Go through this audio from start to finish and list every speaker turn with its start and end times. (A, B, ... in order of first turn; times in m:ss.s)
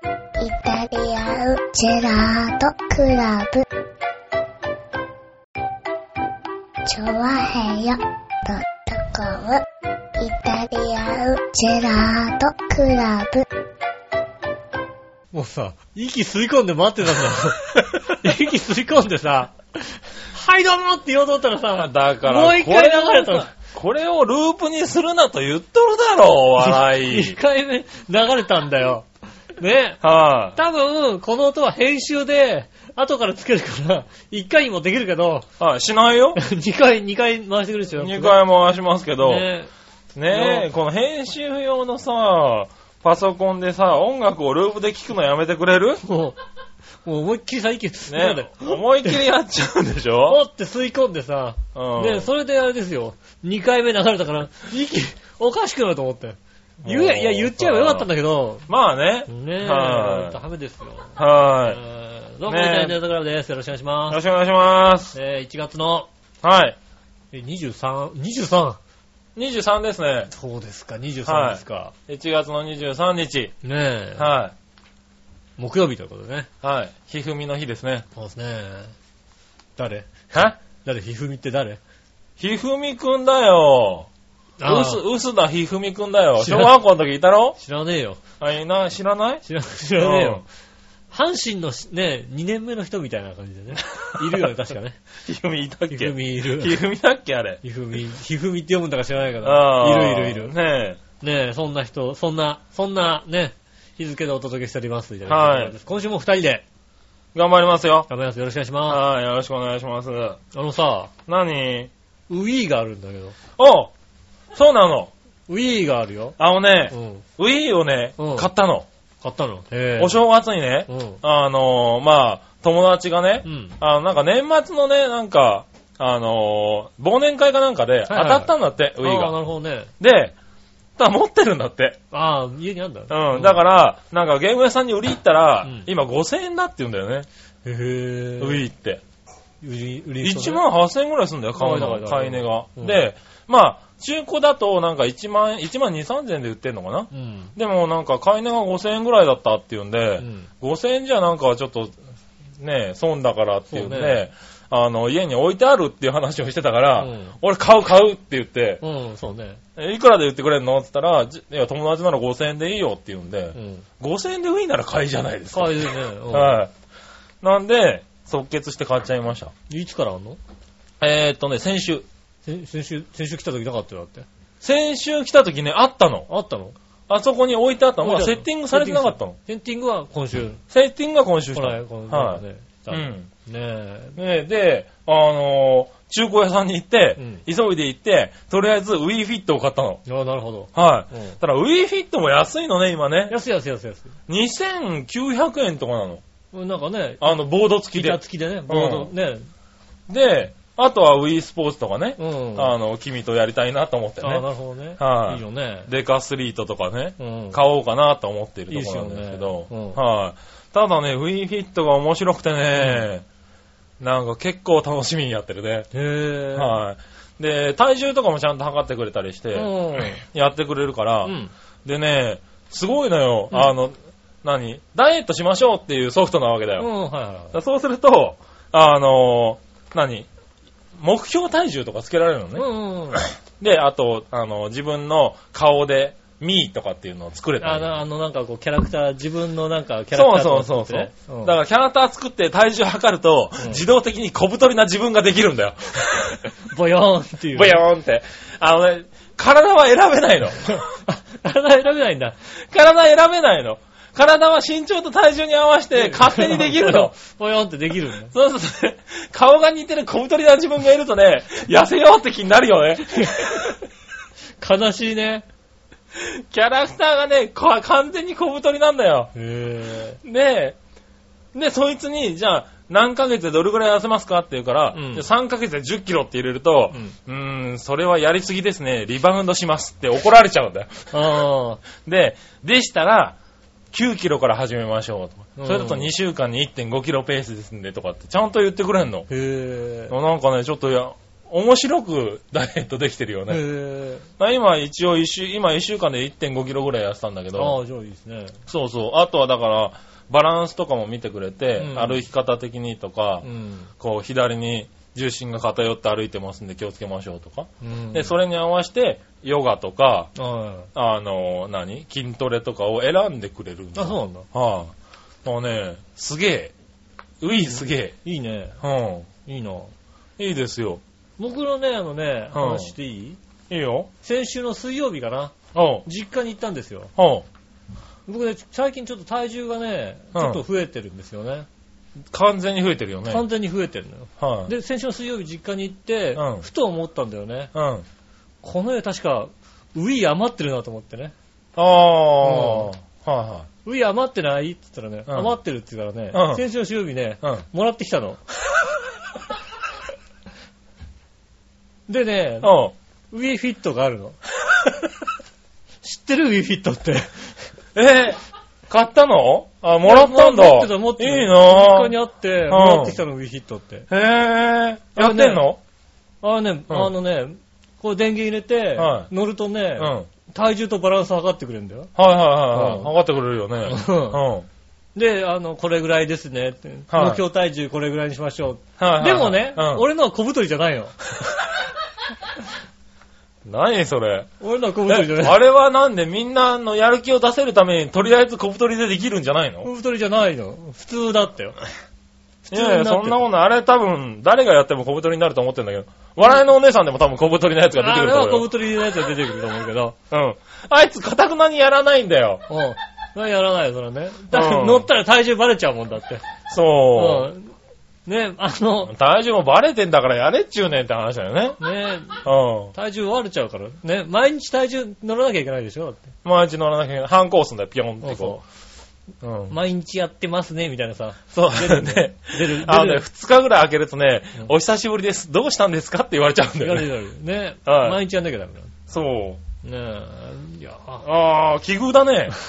0:00.4-0:03.6 A
0:06.9-0:09.6 A
0:10.2-0:13.4 A
0:15.3-0:23.5 B
0:18.0-0:18.3 C
0:21.8-0:27.4 C
0:26.6-0:29.1 B
0:29.6-0:30.0 B
0:30.0-0:30.6 C
0:30.6-0:35.5 B
0:35.6-0:36.4 C
0:36.3-0:38.4 B
0:38.0-0:39.5 C
0:39.2-0:39.7 B
0:40.2-0:46.0 C
0:40.3-0:40.7 B
0:46.0-0:46.4 B
0:47.0-0:49.2 B
0:48.1-0:50.4 C
0:50.3-0:58.7 B
0:51.7-0:52.3 C
0:56.8-0:58.1 C
0:58.7-1:00.4 C
0:59.3-1:04.2 B
1:01.2-1:01.8 C
1:02.5-1:03.0 C
1:04.1-1:05.1 C
1:05.1-1:06.1 B
1:06.4-1:06.8 C
1:07.3-1:08.8 B
1:09.3-1:10.3 C
1:10.3-1:11.9 B
1:11.2-1:13.5 C
1:13.6-1:14.3 B
1:14.2-1:14.6 C
1:15.6-1:16.5 B
1:16.6-1:18.1 C
1:18.1-1:18.9 B
1:19.8-1:21.8 B
1:22.4-1:24.1 C
1:24.6-1:25.0 B
1:24.6-1:27.6 C
1:26.4-1:26.8 B
1:27.6-1:28.2 B
1:28.4-1:29.4 C
1:29.4-1:30.5 B
1:30.0-1:30.4 C
1:31.1-1:35.0 B
1:34.1-1:34.4 C
1:35.2-1:37.6 C
1:35.9-1:36.8 B
1:37.6-1:40.5 B
1:39.4-1:41.0 C
1:41.2-1:46.6 B
1:45.3-1:45.8 C
1:47.3-1:48.1 C
1:48.1-1:49.0 B
1:48.9-1:50.4 C
1:50.5-1:51.1 B
1:51.3-1:51.9 C
1:52.3-1:53.4 B
1:53.6-1:53.9 C
1:54.5-1:55.1 C
1:55.5-1:56.4 B
1:56.4-1:58.9 C
1:56.9-1:57.2 B
1:58.2-1:58.5 B
1:59.2-2:00.2 B
2:00.0-2:09.3 C
2:00.9-2:01.2 B
2:03.4-2:03.8 B
2:08.1-2:09.9 B
2:10.0-2:10.3 C
2:11.0-2:12.0 C
2:12.1-2:13.6 B
2:13.1-2:17.3 C
2:15.6-2:15.9 B
2:17.6-2:18.7 B
2:18.4-2:19.0 C
2:19.6-2:20.6 B
2:20.2-2:32.0 C
2:21.6-2:23.1 B
2:27.1-2:27.5 B
2:30.2-2:30.5 B
2:32.6-2:38.8 C
2:33.7-2:34.2 B
2:37.0-2:37.4 B
2:38.8-2:39.6 B
2:39.8-2:46.7 C
2:43.5-2:43.8 B
2:45.5-2:46.6 B
2:47.4-2:49.5 C
2:49.7-2:50.4 B
2:51.0-2:52.1 C
2:52.4-2:54.2 B
2:54.6-2:56.3 C
2:56.3-2:56.8 B
2:57.1-2:59.4 C
2:58.0-3:00.6 B
3:00.7-3:03.3 C
3:01.5-3:04.2 B
3:04.2-3:10.0 C
3:07.2-3:07.4 B
3:10.1-3:11.4 B
3:10.8-3:13.4 C
3:13.3-3:14.1 B
3:14.3-3:16.2 C
3:16.5-3:17.3 B
3:17.2-3:19.1 C
3:17.9-3:19.5 B
3:20.1-3:24.5 C
3:22.2-3:22.7 B
3:24.2-3:25.9 B
3:25.0-3:33.2 C
3:27.2-3:27.6 B
3:28.7-3:30.0 B
3:32.8-3:33.1 B
3:34.0-3:35.9 C
3:35.9-3:36.8 B
3:36.5-3:46.9 C
3:39.5-3:40.2 B
3:41.2-3:41.5 B
3:46.8-3:47.5 B
3:47.5-3:50.3 C
3:51.0-3:57.9 C
3:52.5-3:53.3 B
3:57.6-4:01.6 B
4:00.1-4:06.5 C
4:06.6-4:07.8 B
4:07.5-4:10.8 C
4:10.6-4:12.4 B
4:12.7-4:17.1 C
4:16.0-4:18.3 B
4:18.3-4:23.8 C
4:23.2-4:23.7 B
4:24.6-4:25.4 B
4:26.1-4:29.3 C
4:29.4-4:30.2 B
4:30.2-4:30.8 C
4:31.5-4:41.2 C
4:34.9-4:35.2 B
4:41.1-4:41.8 B
4:42.0-4:43.4 C
4:43.9-4:49.3 C
4:45.6-4:46.1 B
4:49.3-4:50.2 B
4:50.1-4:53.6 C
4:53.5-4:54.2 B
4:54.4-4:57.8 C
4:57.6-4:58.6 B
4:58.7-5:03.4 C
5:01.8-5:02.2 B
5:03.4-5:03.9 B
5:04.0-5:10.3 C
5:07.8-5:08.3 B
5:10.4-5:10.9 B
5:10.9-5:14.9 C
5:13.9-5:14.5 B
5:15.4-5:16.7 C
5:17.4-5:18.2 C
5:17.7-5:18.8 B
5:18.8-5:19.3 C
5:19.4-5:19.9 B
5:20.4-5:21.0 C
5:21.4-5:23.4 B
5:22.5-5:22.9 C
5:23.7-5:24.1 C
5:24.2-5:27.1 B
5:25.7-5:26.1 C
5:27.2-5:27.4 C
5:28.3-5:31.7 B
5:30.4-5:30.6 C
5:32.3-5:33.4 C
5:33.3-5:37.7 B
5:34.4-5:34.7 C
5:36.4-5:36.6 C
5:37.7-5:38.1 C
5:38.6-5:41.3 B
5:41.8-5:43.7 C
5:42.4-5:42.9 B
5:43.8-5:48.4 B
5:45.3-5:45.6 C
5:46.3-5:46.6 C
5:52.1-5:52.7 B
5:52.6-5:52.9 C
5:53.3-5:54.4 B
5:56.0-5:57.6 B
5:57.9-6:02.1 C
6:00.0-6:04.1 B
6:02.7-6:03.2 C
6:04.1-6:05.8 C
6:05.2-6:05.6 B
6:06.4-6:12.1 B
6:09.0-6:09.3 C
6:10.0-6:10.3 C
6:12.2-6:14.7 C
6:12.7-6:13.1 B
6:13.8-6:14.4 B
6:15.1-6:21.2 B
6:17.1-6:17.4 C
6:19.0-6:20.1 C
6:23.6-6:24.5 C
6:24.6-6:25.6 B
6:25.1-6:29.9 C
6:29.8-6:31.8 B
6:32.6-6:33.4 B
6:32.7-6:38.7 C
6:38.0-6:40.2 B
6:40.3-6:42.6 C
6:42.7-6:46.4 B
6:44.5-6:45.1 C
6:46.7-6:47.5 C
6:47.1-6:47.8 B
6:48.2-6:49.1 B
6:49.1-6:51.8 C
6:51.8-6:56.3 B
6:52.4-6:52.9 C
6:56.4-6:58.6 C
6:58.2-6:58.6 B
6:59.4-6:59.8 C
6:59.7-7:03.2 B
7:01.5-7:07.1 C
7:06.8-7:08.9 B
7:07.9-7:08.2 C
7:09.1-7:09.6 C
7:09.8-7:11.2 B
7:11.2-7:12.6 C